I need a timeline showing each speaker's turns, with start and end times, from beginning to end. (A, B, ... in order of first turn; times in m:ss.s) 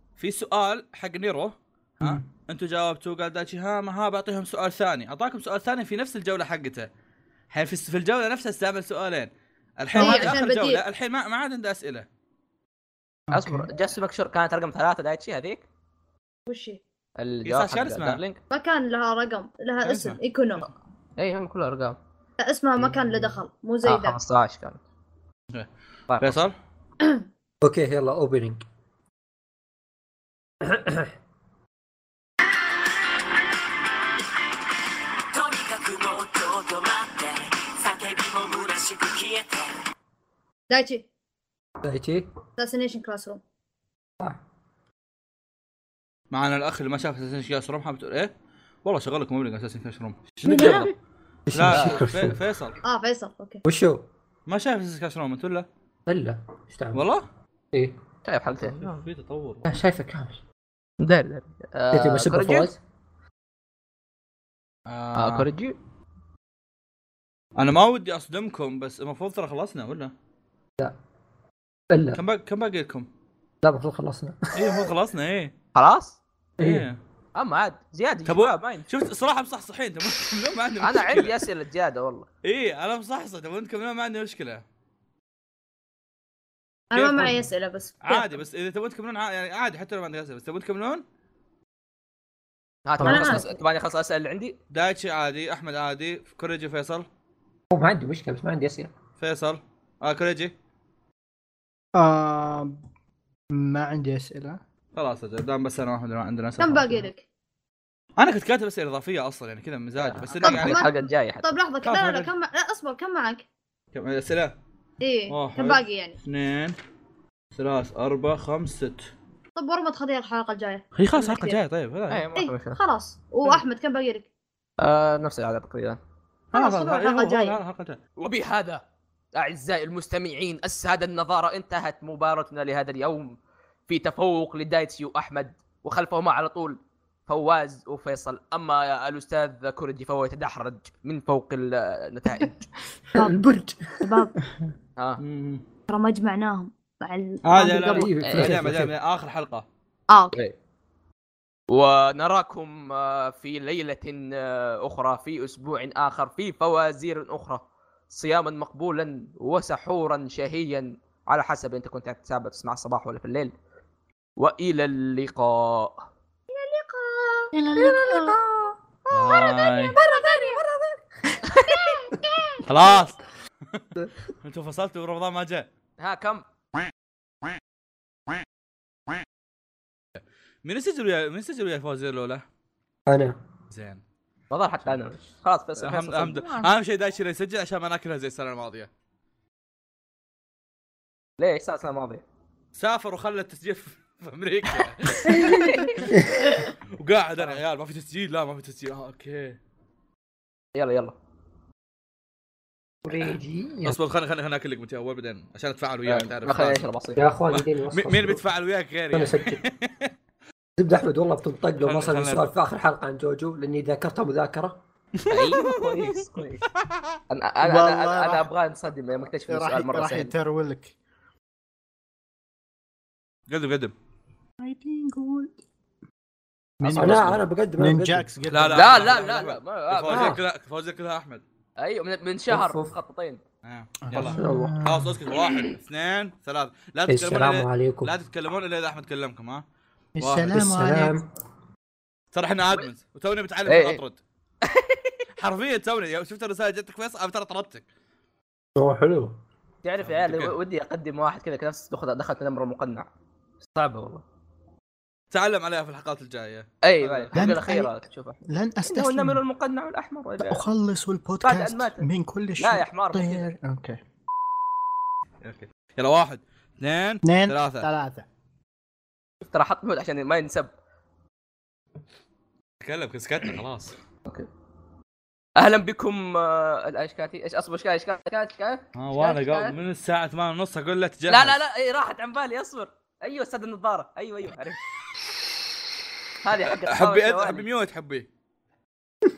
0:00.2-0:06.9 A
0:07.5-0:12.1 A
0:10.0-0:10.8 B
0:10.0-0:10.3 C
0:13.3-0:13.7 C
0:13.3-0:15.6 D
0:16.5-0:16.8 B
0:17.2-0:18.4 D
0:17.4-0:18.2 A
0:18.5-0:20.7 B
0:19.8-0:20.7 A
0:21.2-0:22.0 D
0:22.4-0:24.2 B
0:22.9-0:23.3 E
0:23.8-0:24.8 D
0:26.1-0:26.4 D
0:26.2-0:26.5 A
0:27.6-0:28.6 E
0:30.6-0:31.1 E
0:38.2-0:39.1 E
0:40.7-0:41.0 B
0:41.8-0:42.3 E
0:42.6-0:43.4 B
0:46.3-0:48.3 A
0:48.8-0:50.9 A
0:50.4-0:50.9 E
0:50.6-0:50.9 D
0:51.5-0:52.4 E
0:51.5-0:52.8 A
0:51.7-0:52.0 D
0:52.8-0:53.6 B
0:53.7-0:54.1 E
0:54.5-0:55.7 A
0:56.1-0:57.0 E
0:56.9-0:57.2 A
0:57.7-0:58.0 E
0:58.2-0:59.0 D
0:58.6-0:59.7 A
0:59.7-1:00.4 E
1:01.0-1:02.7 D
1:01.9-1:02.8 E
1:04.9-1:05.5 A
1:05.2-1:05.8 D
1:07.6-1:10.1 A
1:11.9-1:12.2 E
1:12.1-1:13.1 A
1:13.6-1:14.8 E
1:14.5-1:15.5 A
1:15.8-1:16.2 D
1:16.6-1:17.0 A
1:16.6-1:16.9 E
1:17.4-1:18.9 D
1:18.3-1:21.4 A
1:20.8-1:22.3 D
1:22.4-1:24.6 A
1:26.9-1:28.3 B
1:27.0-1:27.4 A
1:28.0-1:31.0 A
1:32.9-1:34.6 D
1:33.0-1:33.5 E
1:33.0-1:33.5 B
1:34.7-1:37.1 A
1:37.7-1:38.9 E
1:39.2-1:40.5 A
1:42.0-1:42.8 C
1:43.5-1:44.6 C
1:45.0-1:47.1 A
1:46.6-1:47.2 B
1:48.2-1:50.9 A
1:50.0-1:51.5 D
1:50.4-1:53.4 B
1:51.8-1:52.3 A
1:53.9-1:54.6 A
1:55.0-1:56.2 B
1:55.3-1:56.8 A
1:57.6-1:59.1 A
1:59.6-2:01.6 B
2:01.0-2:02.3 A
2:02.1-2:02.8 D
2:02.4-2:04.3 B
2:04.8-2:06.0 D
2:06.5-2:08.0 A
2:06.5-2:07.6 B
2:08.2-2:08.8 D
2:09.4-2:13.4 D
2:13.9-2:22.6 D
2:23.2-2:24.3 E
2:24.0-2:24.3 B
2:25.2-2:25.6 A
2:25.9-2:28.1 B
2:27.4-2:29.6 A
2:28.0-2:28.9 E
2:28.2-2:28.6 D
2:30.1-2:30.4 B
2:31.7-2:43.5 D
2:44.4-2:46.0 D
2:46.5-2:48.4 B
2:47.7-2:48.7 E
2:49.1-2:50.6 B
2:49.1-2:50.0 A
2:50.2-2:51.0 E
2:51.5-2:51.9 D
2:51.5-2:52.9 B
2:52.7-2:53.9 A
2:54.4-2:55.7 A
2:56.0-2:56.4 D
3:00.6-3:02.4 A
3:03.1-3:03.4 E
3:03.7-3:04.0 A
3:04.5-3:06.6 D
3:05.8-3:08.9 A
3:11.4-3:12.2 D
3:12.8-3:16.2 A
3:15.3-3:16.0 D
3:17.0-3:19.6 A
3:20.8-3:21.2 D
3:23.0-3:24.0 E
3:23.8-3:26.8 A
3:26.1-3:27.2 D
3:27.2-3:28.4 E
3:27.5-3:30.1 A
3:29.1-3:29.6 E
3:30.8-3:34.8 E
3:31.8-3:32.4 A
3:35.3-3:36.1 A
3:35.3-3:36.6 D
3:37.3-3:40.3 D
3:37.6-3:38.5 C
3:39.5-3:40.9 C
3:43.5-3:43.9 A
3:44.6-3:45.6 C
3:46.8-3:49.1 C
3:46.9-3:48.3 E
3:46.9-3:47.3 A
3:48.5-3:51.4 A
3:48.7-3:50.4 D
3:50.1-3:50.4 E
3:51.8-3:53.4 D
3:52.5-3:52.9 E
3:53.6-3:59.6 A
3:54.1-3:55.2 C
3:54.2-3:54.9 E
3:57.1-3:58.1 E
4:00.2-4:01.2 C
4:00.2-4:00.6 A
4:00.5-4:01.3 E
4:02.3-4:04.2 A
4:03.7-4:04.0 D
4:04.6-4:05.2 D
4:05.4-4:07.8 A
4:08.8-4:09.4 E
4:09.8-4:13.1 D
4:10.0-4:10.6 A
4:13.8-4:14.2 D
4:15.3-4:17.4 A
4:16.8-4:20.6 D
4:17.4-4:18.0 C
4:18.5-4:19.4 C
4:20.4-4:24.0 C
4:21.4-4:22.1 D
4:22.6-4:23.5 D
4:25.4-4:27.9 A
4:27.2-4:28.3 C
4:29.4-4:30.7 D
4:32.8-4:34.0 A
4:35.6-4:39.8 D
4:39.0-4:41.6 A
4:41.3-4:44.8 D
4:46.4-4:47.6 D
4:46.7-4:48.3 A